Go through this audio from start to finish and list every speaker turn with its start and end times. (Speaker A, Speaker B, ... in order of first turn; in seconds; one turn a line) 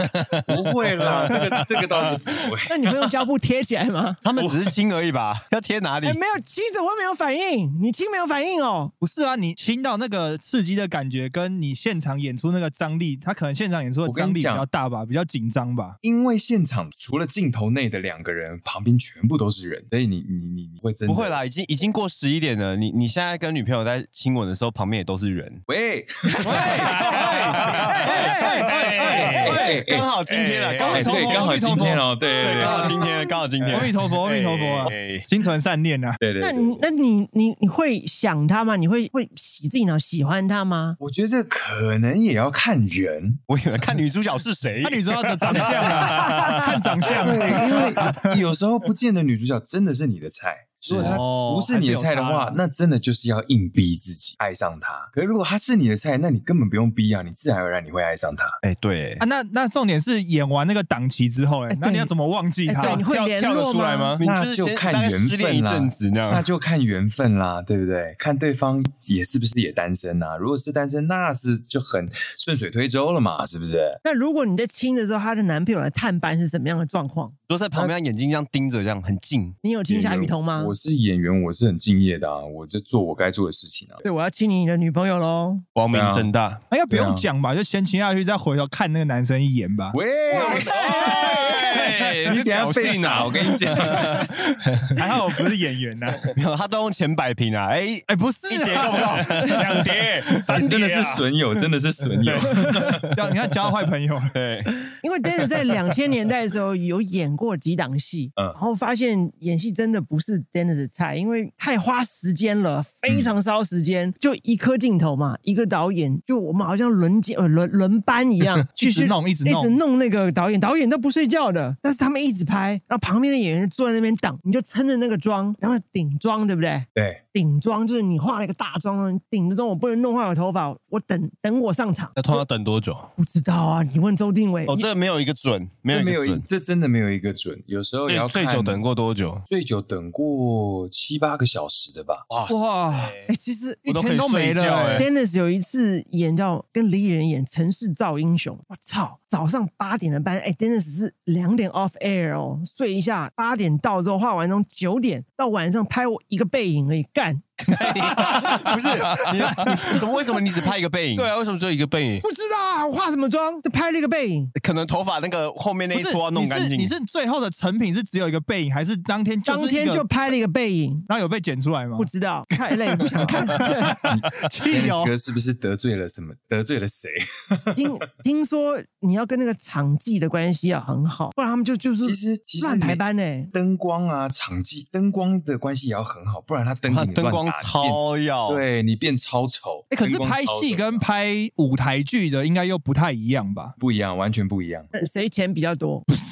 Speaker A: 0.4-2.7
Speaker B: 2.7-4.2
Speaker C: 4.2-6.2
Speaker B: 6.0-8.9
Speaker D: 9.0-16.0
Speaker A: 14.1-14.7
Speaker A: 16.0-21.4
Speaker C: 21.1-25.6
Speaker A: 25.7-26.8
Speaker B: 26.3-28.7
Speaker D: 26.4-29.8
Speaker E: 26.8-29.6
Speaker C: 28.1-28.4
Speaker C: 29.0-31.9
Speaker A: 29.4-30.1
Speaker E: 30.3-30.9
Speaker D: 30.6-33.0
Speaker A: 30.9-33.0
Speaker C: 32.4-33.9
Speaker E: 33.6-35.3
Speaker D: 33.7-36.2
Speaker A: 36.2-36.8
Speaker B: 36.4-41.0
Speaker A: 41.0-43.4
Speaker C: 43.5-46.6
Speaker D: 44.8-48.2
Speaker A: 47.1-58.6
Speaker C: 47.2-47.8
Speaker D: 50.9-52.6
Speaker C: 50.9-51.2
Speaker C: 58.6-59.2
Speaker D: 59.2-63.0
Speaker B: 61.7-62.1
Speaker B: 62.7-64.2
Speaker E: 62.8-64.2
Speaker C: 64.2-66.5
Speaker A: 64.2-74.0
Speaker B: 74.0-77.4
Speaker C: 77.5-79.6
Speaker B: 79.6-80.7
Speaker A: 79.9-84.0
Speaker B: 84.0-85.7
Speaker E: 85.8-86.6
Speaker A: 85.9-86.3
Speaker D: 86.7-91.6
Speaker A: 86.9-87.3
Speaker A: 89.9-94.3
Speaker E: 90.4-95.0
Speaker D: 94.9-96.3
Speaker C: 96.3-99.8
Speaker D: 98.1-100.0
Speaker E: 99.4-101.2
Speaker C: 100.4-100.7
Speaker A: 100.5-103.0
Speaker C: 102.3-102.7
Speaker D: 103.1-104.3
Speaker C: 104.3-104.7
Speaker B: 105.0-132.4
Speaker A: 113.1-113.3
Speaker D: 118.8-119.8
Speaker A: 127.0-127.2
Speaker E: 132.2-133.1
Speaker B: 133.2-134.9
Speaker C: 134.7-136.4
Speaker A: 135.9-138.8
Speaker E: 138.1-139.4
Speaker A: 139.5-142.3
Speaker E: 142.3-143.3
Speaker D: 142.5-143.2
Speaker B: 143.3-143.9
Speaker D: 143.8-145.1
Speaker E: 143.9-145.1
Speaker B: 144.9-158.2
Speaker E: 157.7-159.9
Speaker C: 158.1-161.3
Speaker D: 159.2-160.0
Speaker E: 161.2-162.2
Speaker B: 162.2-164.5
Speaker C: 164.6-166.9
Speaker D: 165.9-170.1
Speaker B: 169.5-171.1
Speaker D: 171.1-175.1
Speaker B: 172.0-174.1
Speaker A: 174.0-177.8
Speaker B: 177.8-183.5
Speaker A: 182.0-183.0
Speaker A: 183.5-191.1
Speaker C: 186.9-188.6
Speaker D: 189.9-193.8
Speaker A: 193.8-194.9
Speaker B: 194.9-196.1